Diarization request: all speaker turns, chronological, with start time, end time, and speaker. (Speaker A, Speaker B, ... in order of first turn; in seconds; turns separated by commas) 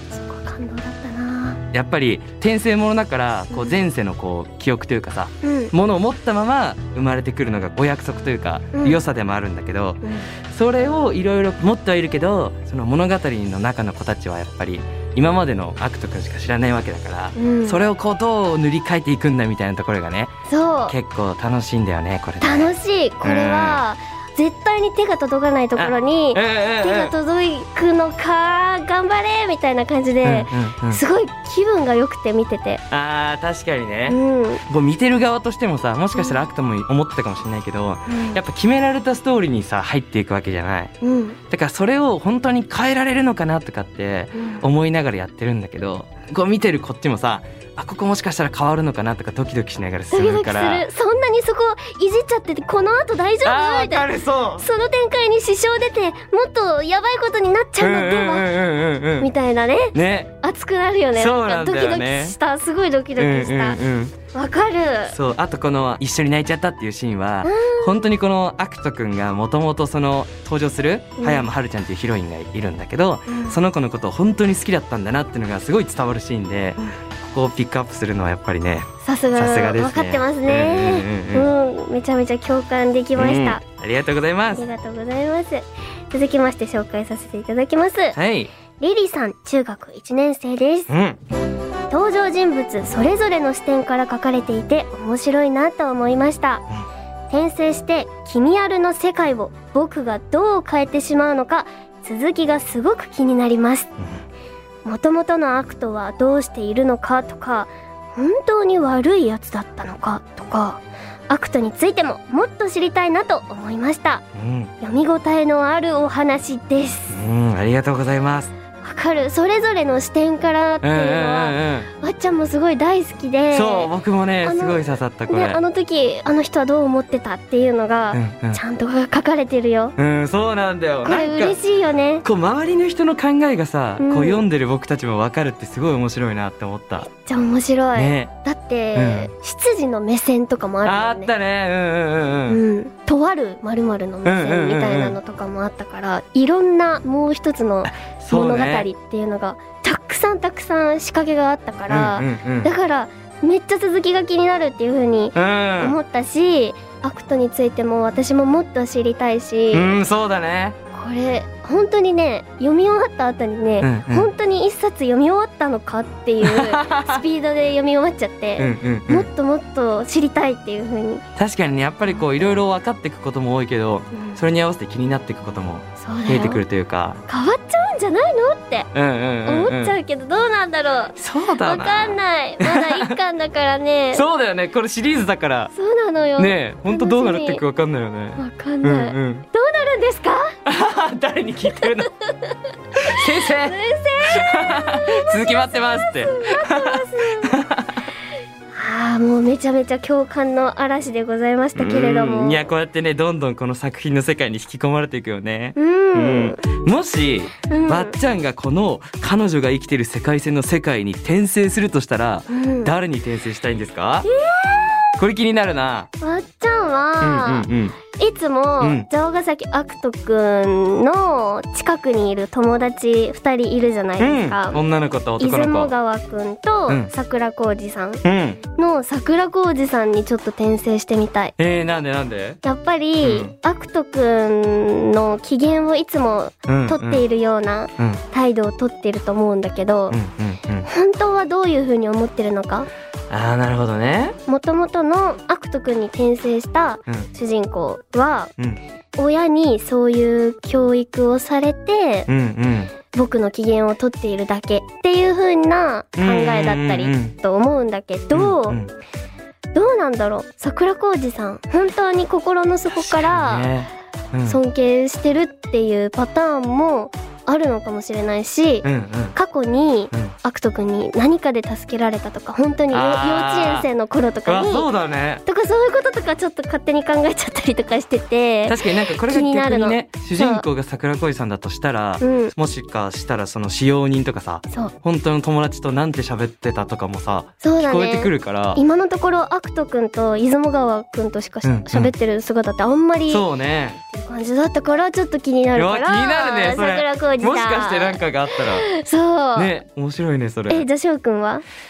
Speaker A: 0.1-1.6, Speaker B: 1.7-20.3, Speaker A: 5.4-5.7, Speaker A: 8.7-9.0, Speaker A: 10.0-10.3, Speaker A: 17.4-17.8, Speaker A: 20.5-21.0, Speaker B: 20.9-23.8, Speaker A: 22.4-32.8, Speaker B: 25.8-27.1, Speaker B: 30.2-31.0, Speaker B: 32.9-40.9, Speaker A: 34.1-34.6, Speaker A: 38.1-38.4, Speaker A: 41.0-41.4, Speaker B: 41.5-50.9, Speaker A: 44.4-44.6, Speaker A: 50.1-58.5, Speaker B: 53.4-54.6, Speaker B: 57.8-59.3, Speaker A: 59.2-63.8, Speaker B: 59.9-60.3, Speaker B: 61.1-62.4, Speaker B: 63.2-64.1, Speaker A: 64.3-65.2, Speaker B: 65.1-81.5, Speaker A: 67.4-68.0, Speaker A: 71.2-71.5, Speaker A: 73.3-73.6, Speaker A: 79.0-83.6, Speaker B: 83.2-84.7, Speaker A: 84.5-88.2, Speaker B: 88.2-88.5, Speaker A: 88.8-90.9, Speaker B: 90.9-91.2, Speaker A: 91.9-96.7, Speaker A: 97.3-104.0, Speaker A: 104.8-114.2, Speaker B: 114.3-114.7, Speaker A: 114.8-117.2, Speaker B: 117.1-118.5, Speaker A: 118.8-123.9, Speaker B: 120.8-121.9, Speaker B: 123.5-125.6, Speaker A: 124.4-130.0, Speaker B: 128.1-128.6, Speaker B: 130.0-131.6, Speaker A: 131.0-132.2, Speaker B: 132.2-137.1, Speaker A: 134.0-134.4, Speaker A: 137.1-141.3, Speaker B: 138.0-138.3, Speaker B: 138.9-139.3, Speaker B: 140.8-142.6, Speaker A: 142.5-160.0, Speaker B: 144.2-145.2, Speaker B: 147.8-148.9, Speaker B: 151.9-152.7, Speaker B: 155.3-156.0, Speaker B: 159.7-160.8, Speaker A: 160.9-171.2, Speaker B: 163.8-164.3, Speaker B: 166.4-167.2, Speaker B: 168.6-169.3, Speaker B: 171.4-177.2, Speaker A: 174.1-174.4, Speaker A: 176.0-176.6, Speaker A: 177.3-178.9, Speaker B: 178.9-179.9, Speaker A: 179.4-184.3, Speaker B: 181.2-183.1, Speaker B: 184.1-185.7, Speaker A: 185.7-187.6, Speaker B: 186.4-189.4, Speaker A: 188.4-190.6, Speaker B: 190.7-192.1, Speaker A: 192.2-197.6, Speaker B: 193.0-198.0, Speaker A: 198.7-202.7, Speaker B: 201.8-214.3, Speaker A: 205.8-206.6, Speaker A: 207.7-208.2, Speaker A: 212.5-212.9, Speaker A: 214.2-215.2, Speaker B: 215.2-216.1, Speaker A: 216.2-224.8, Speaker B: 217.2-218.0, Speaker B: 218.8-219.1, Speaker B: 224.2-225.9, Speaker A: 225.4-228.2, Speaker B: 228.2-228.6, Speaker A: 228.8-231.6, Speaker B: 231.6-232.6, Speaker A: 232.6-240.2, Speaker B: 233.2-233.5, Speaker B: 236.7-237.2, Speaker B: 240.1-240.9, Speaker A: 240.9-242.9, Speaker B: 243.3-244.4, Speaker A: 244.5-248.5, Speaker A: 249.2-252.3, Speaker B: 252.3-252.9, Speaker A: 253.1-258.8, Speaker B: 256.2-257.3, Speaker B: 258.3-258.9, Speaker A: 259.7-263.7, Speaker B: 262.9-264.6, Speaker A: 264.5-274.9, Speaker B: 268.8-269.4, Speaker B: 272.9-273.9, Speaker B: 274.5-275.4, Speaker A: 275.5-280.6, Speaker B: 278.7-288.8, Speaker A: 282.2-282.5, Speaker A: 287.6-293.4, Speaker B: 291.6-292.1, Speaker B: 293.3-294.0, Speaker A: 294.1-299.7, Speaker B: 295.8-298.9, Speaker B: 299.6-300.9, Speaker A: 300.7-301.6